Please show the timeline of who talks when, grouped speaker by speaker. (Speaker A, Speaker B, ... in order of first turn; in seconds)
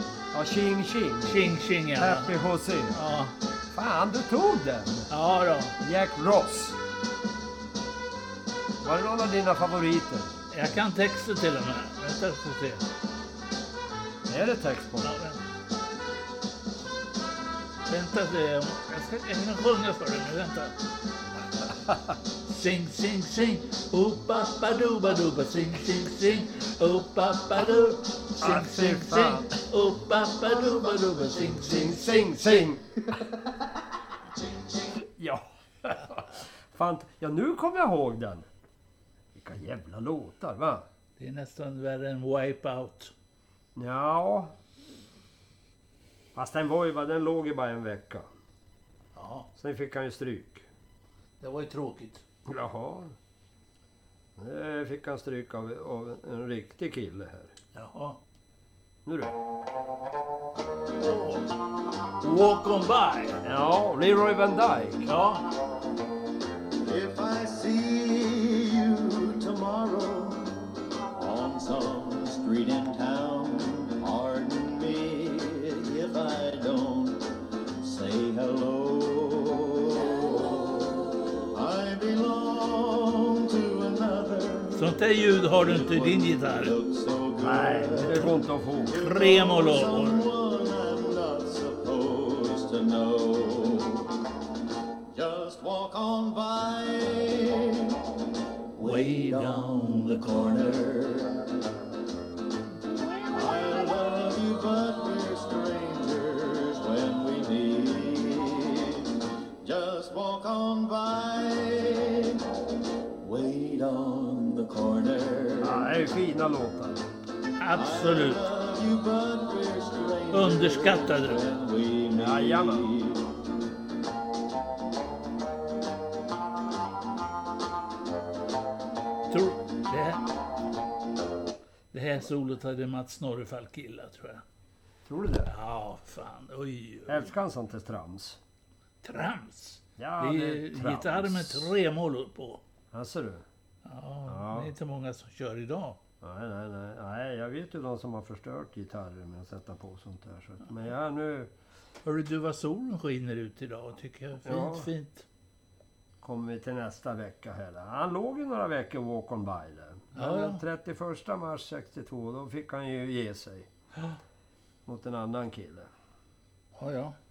Speaker A: 0.3-1.4, 1.9-3.0, 3.7-5.1, 5.8-6.8, 8.8-10.3, 14.3-15.2, 28.4-29.5, 31.6-33.0, 35.0-38.5, 39.4-40.9, 43.8-44.5, 46.4-48.3, 49.6-50.7, 52.5-53.1, 54.4-57.5, 59.0-59.4, 63.4-65.1, 87.4-89.0, 115.6-117.0, 122.2-122.9, 135.1-135.5, 137.1-138.4, 140.0-141.7, 142.9-143.4, 144.3-144.7, 146.2-151.5, 154.4-154.9, 156.2-163.7, 164.9-165.9
Speaker B: 1.2-2.3, 2.9-3.3, 5.1-5.8, 10.5-12.8, 15.0-15.4, 17.9-20.8, 22.5-32.7, 41.2-43.1, 49.1-49.5, 51.4-52.2, 57.8-58.2, 61.0-61.5, 62.2-63.4, 65.0-65.5, 84.7-86.8, 89.0-90.3, 98.8-100.5, 117.6-118.5, 120.3-121.5, 129.3-130.2, 131.9-134.4, 135.5-137.3, 139.0-142.6, 143.8-146.0, 152.0-155.3, 160.2-160.6, 166.8-167.2
Speaker C: 66.8-84.8, 85.5-94.1, 95.1-98.0, 98.7-101.6, 103.3-112.5, 113.2-115.9, 117.7-123.3